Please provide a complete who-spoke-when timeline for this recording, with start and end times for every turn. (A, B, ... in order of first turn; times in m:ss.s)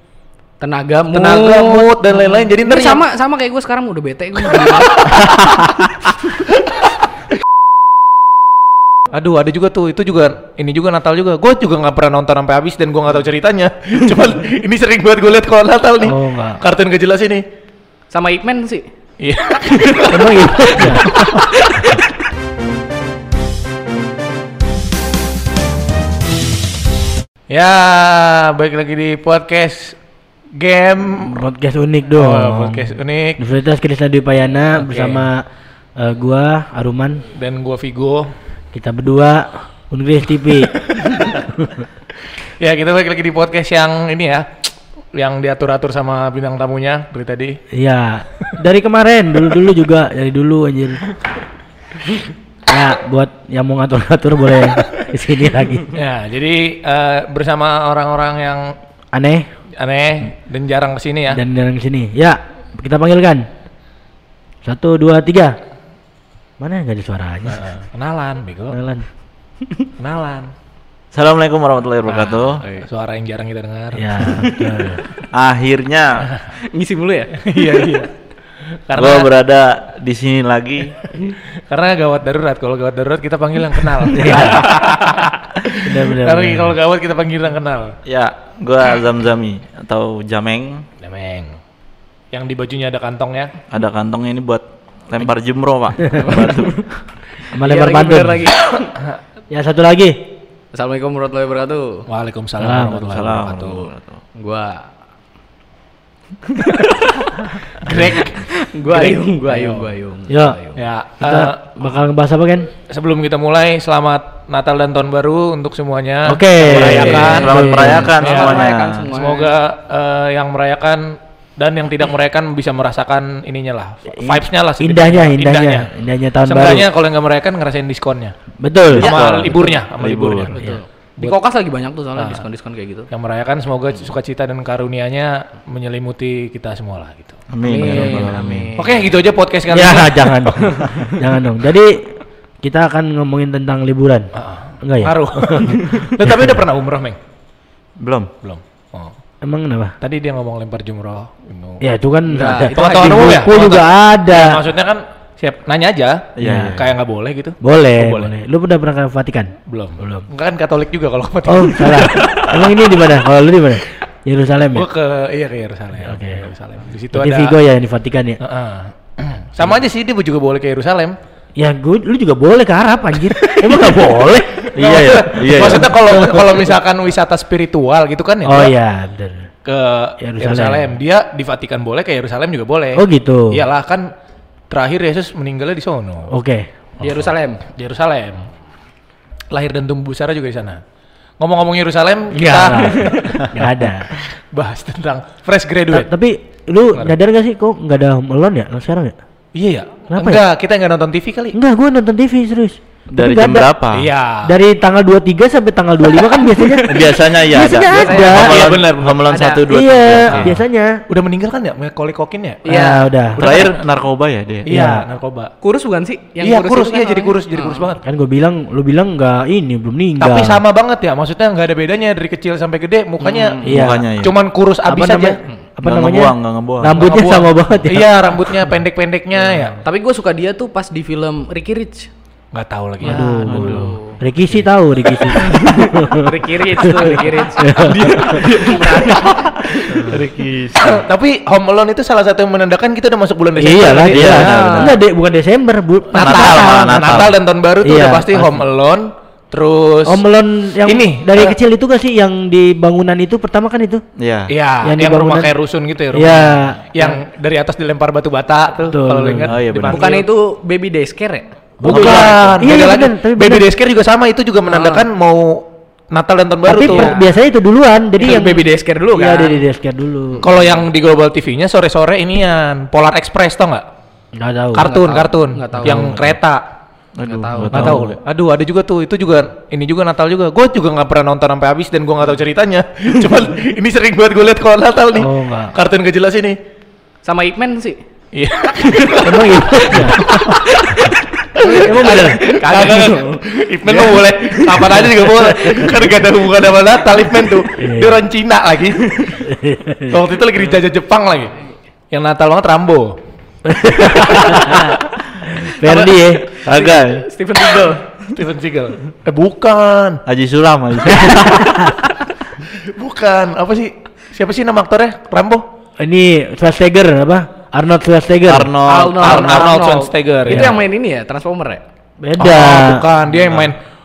0:00.6-0:05.2 A
0:01.1-0:03.0 B
0:09.1-0:17.4 B
0:16.0-0:16.6 C
0:18.1-0:18.9 A
0:19.2-0:21.5 B
0:20.1-0:21.2 C
0:21.5-0:22.0 A
0:27.5-0:30.0 B
0:30.5-0:31.4 B
0:31.2-0:35.4 C
0:32.1-0:33.4 B
0:34.8-0:35.3 B
0:36.0-0:37.2 C
0:37.3-0:38.3 B
0:38.7-0:41.9 C
0:40.8-0:41.3 B
0:42.3-0:44.6 B
0:45.1-0:47.6 B
0:47.7-0:51.1 C
0:52.7-0:55.9 C
0:55.9-0:58.8 B
0:59.1-0:59.5 C
0:59.8-1:01.4 B
1:01.3-1:03.5 C
1:04.6-1:05.6 C
1:06.6-1:07.7 C
1:07.5-1:08.8 B
1:08.7-1:09.1 C
1:10.0-1:10.5 B
1:11.1-1:12.6 D
1:12.1-1:12.8 A
1:12.7-1:14.4 B
1:13.9-1:15.0 C
1:15.3-1:16.3 D
1:16.6-1:18.0 A
1:17.3-1:18.1 B
1:18.9-1:19.3 B
1:18.9-1:21.0 D
1:21.7-1:28.0 B
1:24.1-1:24.7 C
1:25.8-1:26.8 C
1:28.0-1:30.9 D
1:31.0-1:31.6 B
1:32.3-1:33.5 B
1:33.7-1:36.9 D
1:36.2-1:36.7 A
1:37.5-1:38.9 A
1:37.5-1:38.6 C
1:39.5-1:40.3 C
1:40.7-1:42.0 A
1:42.1-1:43.9 B
1:42.6-1:43.0 C
1:43.0-1:44.2 D
1:44.4-1:44.9 A
1:46.4-1:47.3 A
1:47.7-1:49.9 B
1:48.3-1:50.8 A
1:50.3-1:50.6 C
1:50.7-1:51.7 B
1:51.2-1:52.7 C
1:52.9-1:57.5 B
1:56.2-1:58.1 C
1:56.7-1:59.0 D
1:56.8-1:59.5 A
1:58.2-2:05.9 B
2:04.1-2:06.9 C
2:06.4-2:08.3 B
2:08.6-2:09.2 C
2:08.9-2:10.6 B
2:08.9-2:10.6 D
2:10.5-2:13.1 A
2:12.2-2:12.4 B
2:13.1-2:20.9 B
2:17.5-2:18.7 D
2:17.6-2:19.0 A
2:19.7-2:24.3 C
2:24.3-2:27.2 B
2:24.8-2:26.6 C
2:28.0-2:28.3 D
2:28.4-2:29.2 B
2:29.4-2:30.0 C
2:30.0-2:31.8 B
2:31.8-2:34.6 C
2:32.3-2:33.5 A
2:32.7-2:38.3 B
2:36.4-2:37.0 D
2:36.4-2:36.8 C
2:37.6-2:40.3 C
2:39.7-2:42.7 B
2:41.4-2:44.9 C
2:44.7-2:47.6 B
2:46.0-2:46.5 C
2:47.1-2:48.4 C
2:48.4-2:51.2 B
2:51.6-2:56.7 C
2:53.4-2:54.0 B
2:54.6-2:58.8 B
2:54.8-2:55.9 D
2:58.4-2:59.5 C
2:59.6-3:04.1 B
3:00.2-3:00.9 C
3:03.0-3:03.6 C
3:04.7-3:06.3 B
3:06.3-3:06.7 C
3:07.0-3:08.5 B
3:07.0-3:07.6 A
3:09.5-3:10.8 B
3:11.4-3:16.1 B
3:12.3-3:14.1 C
3:15.9-3:19.2 C
3:19.6-3:21.6 B
3:20.1-3:20.4 C
3:21.5-3:23.7 C
3:23.1-3:24.1 D
3:23.9-3:24.5 B
3:24.4-3:28.8 C
3:26.8-3:30.6 D
3:27.6-3:29.7 A
3:27.9-3:29.2 B
3:29.7-3:31.0 C
3:30.3-3:30.6 B
3:31.1-3:32.6 B
3:32.6-3:33.1 A
3:32.7-3:33.5 C
3:33.3-3:33.9 B
3:33.4-3:34.7 D
3:34.7-3:35.5 B
3:34.7-3:35.0 C
3:35.6-3:37.9 A
3:36.4-3:38.0 B
3:38.0-3:40.6 C
3:40.2-3:43.6 B
3:43.2-3:43.6 A
3:43.6-3:44.3 D
3:43.6-3:44.1 C
3:44.2-3:45.4 B
3:44.8-3:48.7 C
3:45.8-3:47.0 D
3:46.9-3:49.8 B
3:49.8-3:52.1 A
3:52.5-3:53.4 B
3:53.0-3:58.4 C
3:53.0-3:54.2 A
3:53.4-3:54.0 D
3:55.4-3:55.8 B
3:55.7-4:00.1 A
3:57.8-4:04.8 B
3:59.8-4:01.0 D
4:03.6-4:07.2 C
4:04.0-4:05.0 D
4:04.5-4:04.9 A
4:06.1-4:10.2 B
4:06.2-4:07.4 D
4:07.8-4:08.6 C
4:10.1-4:14.0 C
4:10.8-4:11.6 B
4:14.2-4:14.5 D
4:14.5-4:20.3 B
4:14.8-4:15.5 C
4:16.1-4:17.2 C
4:18.9-4:19.6 C
4:19.4-4:20.0 D
4:19.9-4:21.5 A
4:21.8-4:27.1 B
4:21.8-4:23.7 C
4:21.9-4:22.6 D
4:24.7-4:25.1 A
4:26.7-4:30.5 C
4:26.8-4:27.3 A
4:28.2-4:29.6 A
4:30.4-4:33.8 B
4:34.4-4:34.9 C
4:34.7-4:36.6 B
4:34.8-4:36.1 A
4:35.7-4:36.4 C
4:37.2-4:38.2 D
4:37.2-4:38.0 A
4:37.7-4:46.6 B
4:45.2-4:45.7 C
4:47.2-4:48.0 A
4:48.3-4:50.6 B
4:49.2-4:50.3 C
4:50.7-4:51.1 A
4:51.6-4:59.4 B
4:51.7-4:53.4 C
4:51.9-4:53.2 A
4:57.8-4:58.2 C
4:59.4-5:00.2 C
5:00.1-5:01.6 B
5:02.1-5:03.2 B
5:03.6-5:06.5 C
5:04.0-5:04.8 B
5:05.6-5:08.3 A
5:06.6-5:07.2 D
5:08.3-5:10.2 B
5:10.3-5:11.9 D
5:11.1-5:12.0 C
5:12.6-5:15.6 B
5:16.0-5:18.7 C
5:18.5-5:19.6 D
5:18.8-5:21.8 A
5:19.2-5:20.8 B
5:20.5-5:20.8 C
5:22.2-5:23.0 C
5:22.4-5:23.8 B
5:23.3-5:23.7 D